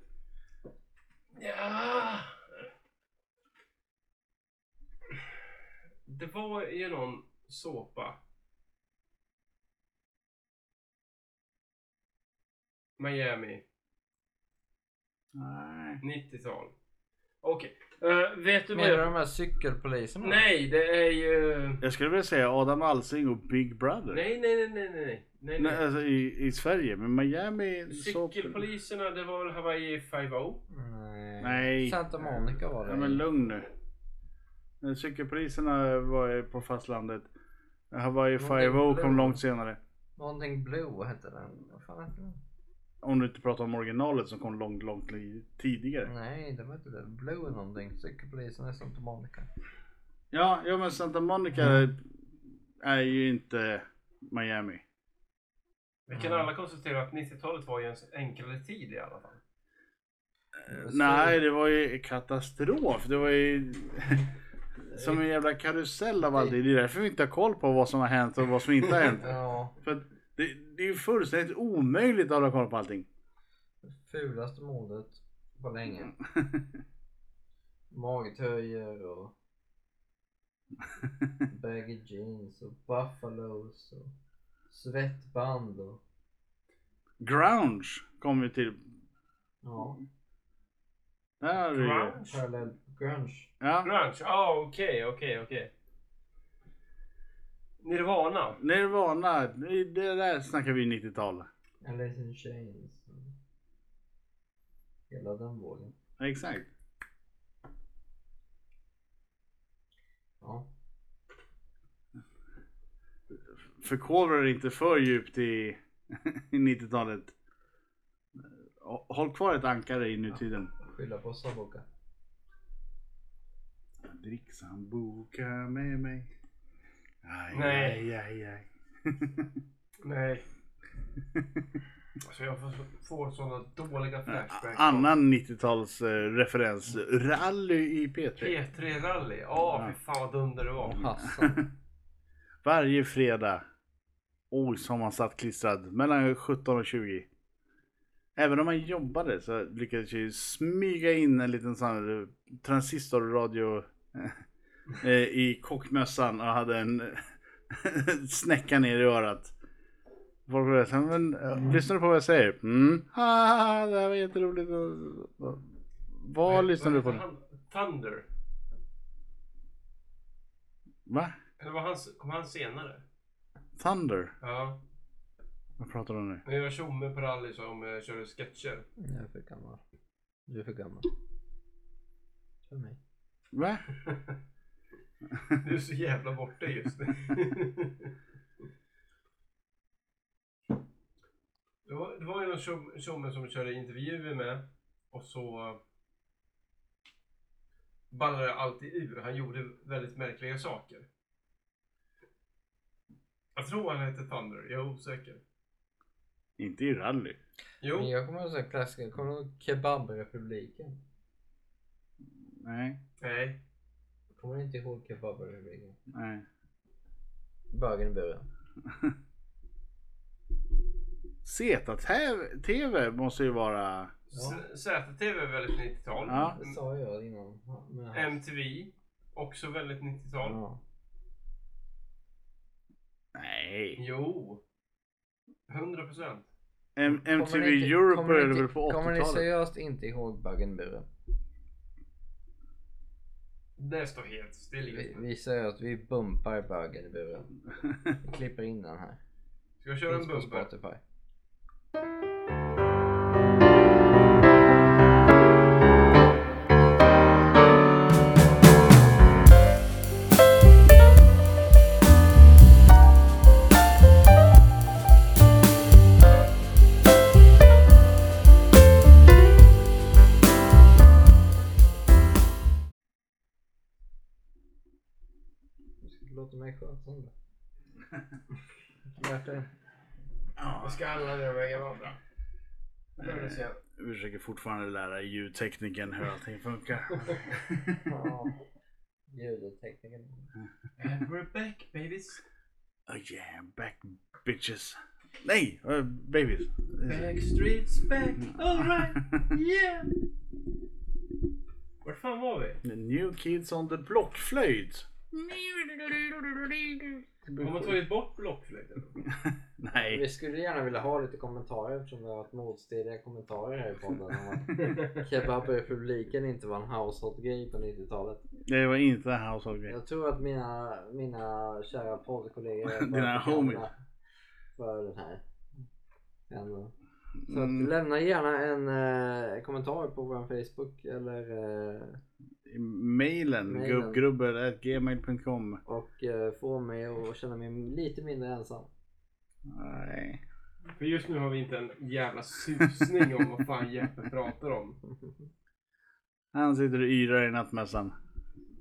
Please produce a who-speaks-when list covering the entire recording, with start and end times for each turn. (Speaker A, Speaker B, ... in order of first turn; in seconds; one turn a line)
Speaker A: 1.3-2.6
Speaker A: 6.0-8.2
Speaker A: 13.0-13.6
Speaker B: 15.3-16.0
Speaker A: 16.0-16.7
Speaker A: 17.4-19.1
Speaker C: 18.7-20.4
Speaker A: 20.2-21.8
Speaker B: 21.8-24.2
Speaker A: 24.1-25.8
Speaker B: 25.6-28.6
Speaker A: 27.9-30.6
Speaker C: 30.7-33.2
Speaker B: 31.4-32.0
Speaker B: 32.8-33.7
Speaker B: 34.8-37.3
Speaker B: 37.9-39.8
Speaker C: 38.4-39.4
Speaker C: 40.2-42.4
Speaker B: 43.0-46.1
Speaker C: 46.0-49.5
Speaker B: 50.3-52.0
Speaker B: 52.8-54.8
Speaker A: 56.1-59.4
Speaker C: 56.2-56.5
Speaker B: 60.6-64.2
Speaker C: 60.7-61.4
Speaker C: 64.9-65.2
Speaker B: 64.9-73.1
Speaker C: 69.2-69.8
Speaker C: 73.8-76.1
Speaker B: 76.3-76.6
Speaker C: 77.9-79.3
Speaker C: 81.5-84.1
Speaker C: 84.7-86.0
Speaker B: 87.2-88.8
Speaker C: 89.6-90.0
Speaker B: 91.4-92.2
Speaker A: 91.7-92.4
Speaker C: 92.2-93.5
Speaker B: 93.6-93.9
Speaker A: 93.8-95.7
Speaker A: 97.8-98.6
Speaker B: 98.6-101.5
Speaker C: 101.8-103.3
Speaker C: 105.1-105.9
Speaker B: 106.2-106.7
Speaker C: 110.4-110.7
Speaker B: 113.8-117.3
Speaker B: 118.8-120.7
Speaker C: 120.8-121.8
Speaker B: 124.0-126.3
Speaker B: 127.2-129.5
Speaker A: 127.5-128.0
Speaker A: 130.0-130.4
Speaker B: 131.3-131.6
Speaker A: 132.2-135.1
Speaker B: 134.3-138.6
Speaker A: 138.4-141.1
Speaker C: 140.8-141.6
Speaker B: 141.3-141.7
Speaker B: 142.6-143.6
Speaker B: 144.5-147.3
Speaker B: 148.3-154.4
Speaker B: 155.0-159.5
Speaker B: 160.5-165.6
Speaker B: 166.1-167.2
Speaker A: 166.4-168.3
Speaker B: 171.1-171.3
Speaker A: 171.6-173.0
Speaker B: 173.8-174.3
Speaker A: 174.4-174.8
Speaker B: 175.8-176.4
Speaker A: 176.4-178.8
Speaker C: 179.0-179.8
Speaker C: 180.5-181.1
Speaker C: 182.7-183.0
Speaker B: 183.5-183.8
Speaker A: 184.1-184.3
Speaker A: 185.6-188.1
Speaker A: 191.8-195.8
Speaker A: 198.1-201.1
Speaker A: 203.6-205.4
Speaker B: 206.6-207.4
Speaker A: 207.8-208.1
Speaker C: 207.9-211.0
Speaker B: 212.6-213.0
Speaker A: 213.2-213.6
Speaker C: 214.3-216.0
Speaker B: 216.1-216.4
Speaker C: 217.7-218.4
Speaker B: 218.9-219.1
Speaker B: 221.4-224.1
Speaker A: 224.3-226.8
Speaker C: 224.3-224.6
Speaker B: 226.2-226.6
Speaker C: 226.3-228.4
Speaker A: 228.1-230.6
Speaker C: 230.4-230.8
Speaker B: 233.3-234.0
Speaker A: 234.0-234.6
Speaker A: 235.7-236.5
Speaker B: 236.9-239.4
Speaker C: 237.1-241.1
Speaker A: 243.8-245.2
Speaker C: 244.9-247.5
Speaker C: 248.2-249.2
Speaker A: 249.8-250.7
Speaker C: 250.1-251.0
Speaker C: 276.0-277.3
Speaker C: 279.2-279.7
Speaker B: 280.6-281.0
Speaker A: 280.8-282.2
Speaker A: 283.2-283.8
Speaker B: 283.2-288.0
Speaker C: 288.0-288.6
Speaker C: 289.3-290.5
Speaker A: 291.0-292.4
Speaker B: 293.1-297.3
Speaker A: 297.1-300.1
Speaker B: 298.8-299.4
Speaker A: 302.0-302.8
Speaker B: 302.8-307.9
Speaker A: 307.6-309.2
Speaker B: 309.2-310.2
Speaker C: 309.9-318.4
Speaker A: 314.7-315.3
Speaker B: 318.6-319.9
Speaker C: 319.9-323.9
Speaker B: 322.9-323.9
Speaker C: 324.8-325.4
Speaker C: 326.5-326.9
Speaker B: 327.4-327.9
Speaker C: 327.5-332.2
Speaker B: 332.6-335.8
Speaker C: 333.6-334.2
Speaker C: 335.9-338.9
Speaker B: 339.6-340.4
Speaker A: 341.0-345.0
Speaker B: 346.5-348.1